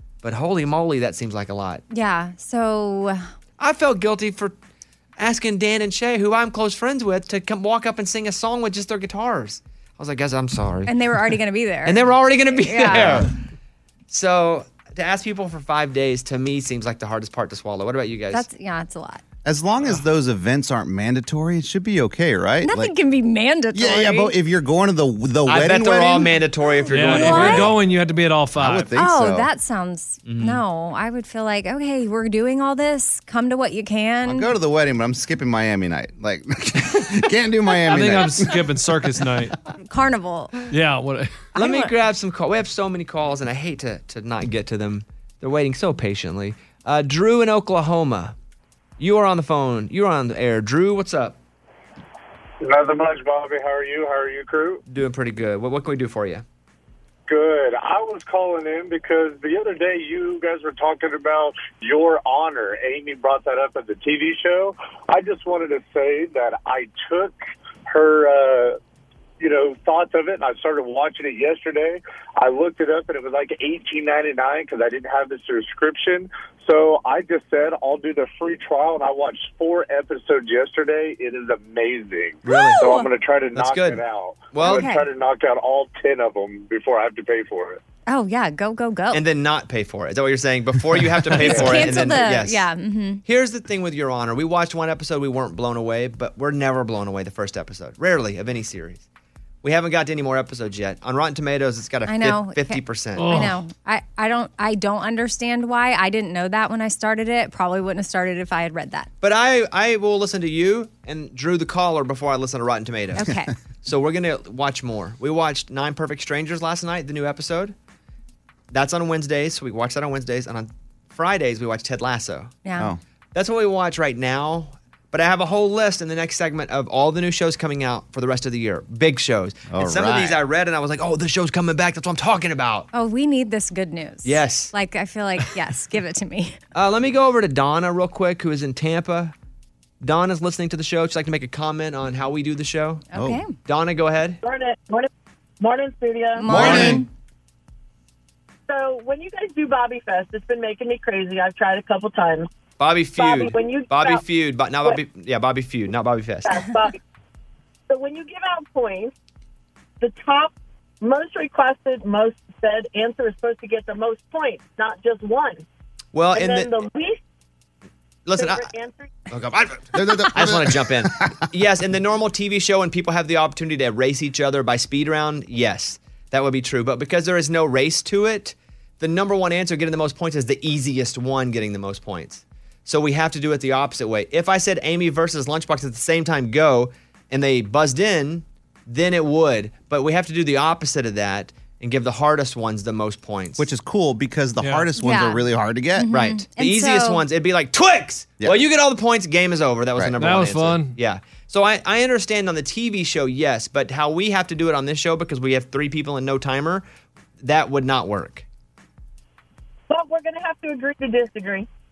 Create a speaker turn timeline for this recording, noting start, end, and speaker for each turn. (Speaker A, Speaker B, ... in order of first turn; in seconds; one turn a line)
Speaker A: 0.2-1.8
Speaker B: 1.9-3.3
Speaker A: 3.6-4.5
Speaker A: 5.2-10.9
Speaker B: 10.9-12.0
Speaker A: 11.8-13.3
Speaker B: 12.6-13.2
Speaker C: 12.9-13.2
Speaker A: 14.1-18.4
Speaker B: 18.3-19.2
Speaker C: 19.4-22.9
Speaker B: 22.6-24.3
Speaker C: 23.7-26.3
Speaker A: 25.4-27.8
Speaker D: 26.9-28.9
Speaker B: 27.1-27.7
Speaker C: 28.6-29.5
Speaker B: 28.9-34.5
Speaker A: 30.2-30.6
Speaker C: 34.2-38.6
Speaker D: 37.9-39.5
Speaker B: 39.8-40.6
Speaker D: 40.7-41.5
Speaker B: 41.5-41.9
Speaker A: 41.5-48.3
Speaker A: 49.0-51.4
Speaker E: 52.6-54.8
Speaker A: 54.9-56.4
Speaker E: 57.3-68.8
Speaker E: 69.4-87.8
Speaker A: 82.4-82.9
Speaker B: 82.5-83.1
Speaker A: 83.5-84.9
Speaker B: 84.6-85.0
Speaker B: 88.1-89.2
Speaker A: 89.1-92.6
Speaker B: 91.3-93.2
Speaker A: 93.2-99.0
Speaker A: 99.6-103.5
Speaker B: 102.1-109.1
Speaker D: 103.2-103.6
Speaker A: 109.2-113.3
Speaker B: 113.2-113.5
Speaker A: 113.8-117.7
Speaker A: 118.7-122.5
Speaker B: 122.6-122.9
Speaker A: 123.3-132.9
Speaker C: 129.7-130.4
Speaker B: 132.9-136.6
Speaker A: 134.2-134.7
Speaker A: 136.7-139.3
Speaker A: 140.0-143.0
Speaker B: 143.1-143.5
Speaker C: 143.1-143.4
Speaker A: 143.6-144.4
Speaker F: 144.4-145.1
Speaker F: 145.6-146.5
Speaker B: 146.3-147.1
Speaker C: 146.5-147.1
Speaker D: 146.5-147.0
Speaker F: 148.7-152.5
Speaker A: 152.8-156.5
Speaker F: 153.2-154.2
Speaker F: 156.5-157.0
Speaker F: 157.9-159.1
Speaker F: 160.0-165.6
Speaker A: 166.1-166.8
Speaker F: 166.3-167.2
Speaker A: 168.2-168.7
Speaker F: 168.3-169.1
Speaker A: 169.3-193.7
Speaker C: 169.9-171.4
Speaker C: 193.6-196.1
Speaker D: 194.6-194.9
Speaker B: 195.0-195.4
Speaker B: 195.9-197.2
Speaker A: 196.1-206.8
Speaker D: 200.2-200.9
Speaker A: 207.4-208.4
Speaker F: 209.9-211.7